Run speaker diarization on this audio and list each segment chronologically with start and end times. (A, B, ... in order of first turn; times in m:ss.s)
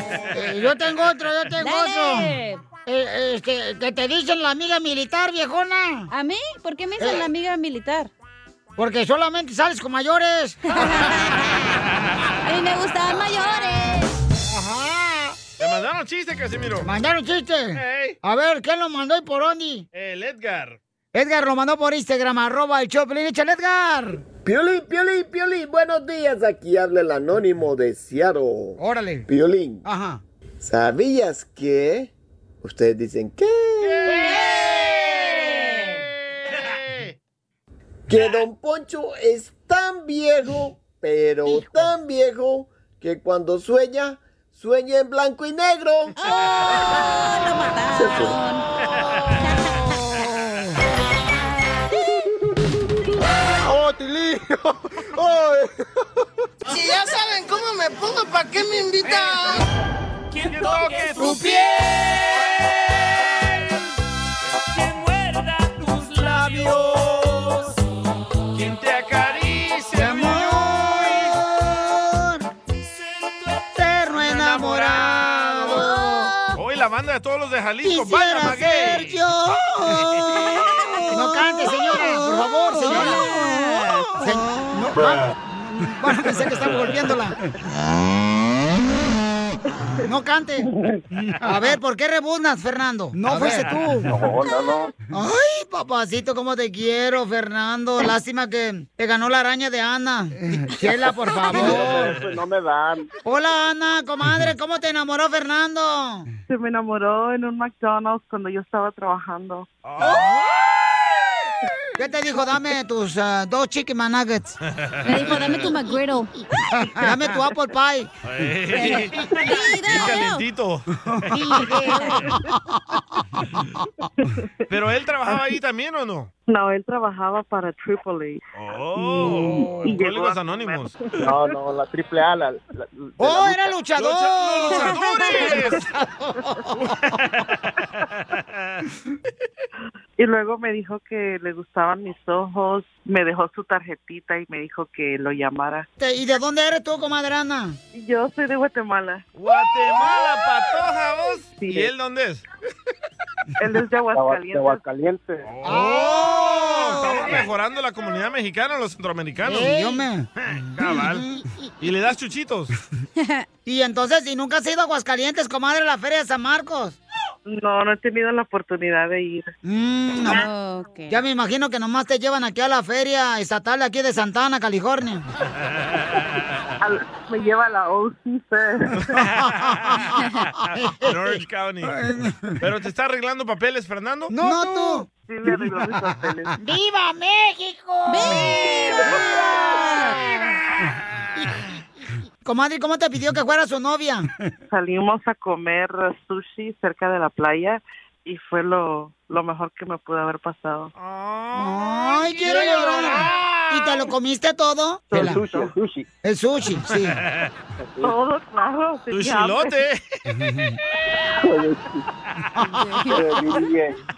0:00.3-0:06.1 A
0:01.6-0:02.6 B
0:06.1-0:08.1 B
0:07.0-0:07.3 A
0:08.8-0:10.9 A
0:10.7-0:11.6 B
0:12.4-0:14.1 B
0:14.5-0:15.4 A
0:15.6-0:16.9 C
0:16.8-0:19.9 A
0:17.7-0:18.2 C
0:19.9-0:20.8 C
0:21.1-0:24.2 A
0:24.4-0:29.8 D
0:28.8-0:29.3 A
0:29.8-0:30.2 A
0:30.6-0:32.1 D
0:32.6-0:34.1 D
0:33.8-0:37.1 C
0:34.2-0:34.7 B
0:35.5-0:35.9 B
0:38.1-0:46.2 D
0:41.5-0:41.9 A
0:46.2-0:48.6 B
0:48.0-0:48.4 D
0:48.9-0:49.3 C
0:49.4-0:50.0 B
0:50.1-0:50.6 A
0:53.6-0:55.7 D
0:56.7-0:59.6 E
1:00.4-1:01.6 C
1:01.2-1:02.1 A
1:04.8-1:07.0 C
1:08.5-1:11.4 C
1:10.0-1:12.4 A
1:13.8-1:16.4 A
1:14.1-1:16.0 C
1:15.9-1:16.3 B
1:16.5-1:19.2 C
1:17.8-1:20.3 A
1:20.8-1:24.1 B
1:21.1-1:27.4 A
1:30.0-1:34.2 A
1:34.0-1:34.9 F
1:35.1-1:42.2 A
1:41.5-1:43.1 F
1:42.0-1:42.2 C
1:43.2-1:46.3 A
1:46.5-1:49.7 G
1:49.8-1:50.3 C
1:52.0-1:54.6 A
1:54.7-1:55.7 C
1:55.0-1:56.3 B
1:56.9-1:58.1 A
1:58.2-2:02.0 C
1:58.7-2:00.4 B
2:01.1-2:02.8 A
2:01.9-2:02.2 B
2:04.7-2:06.3 C
2:06.5-2:08.4 G
2:08.5-2:11.0 C
2:09.0-2:10.9 G
2:11.2-2:13.7 F
2:13.2-2:16.8 A
2:14.0-2:15.9 C
2:15.0-2:15.5 B
2:16.8-2:18.8 C
2:20.2-2:25.9 G
2:26.0-2:27.8 A
2:27.9-2:29.2 G
2:29.4-2:32.5 C
2:31.6-2:31.9 G
2:33.6-2:34.8 G
2:34.1-2:35.5 F
2:35.5-2:41.2 C
2:35.6-2:37.5 A
2:39.4-2:41.5 A
2:41.8-2:42.8 C
2:43.2-2:43.5 B
2:43.6-2:47.0 A
2:47.5-2:49.5 G
2:49.6-2:50.5 A
2:50.2-2:51.2 B
2:51.1-2:55.2 A
2:56.8-2:59.0 G
2:59.0-3:00.1 C
2:59.4-3:00.2 A
3:00.7-3:02.6 A
3:01.0-3:02.0 C
3:02.6-3:04.3 C
3:04.3-3:05.1 A
3:04.5-3:06.5 G
3:06.6-3:10.5 A
3:08.0-3:10.2 B
3:12.4-3:14.3 A
3:14.7-3:20.9 G
3:21.0-3:24.0 C
3:21.5-3:25.4 A
3:25.1-3:26.1 F
3:26.2-3:27.2 A
3:26.9-3:27.5 C
3:27.8-3:28.1 F
3:28.0-3:29.8 G
3:29.1-3:30.2 C
3:30.3-3:30.8 A
3:31.4-3:32.0 F
3:32.8-3:33.2 B
3:33.1-3:34.0 F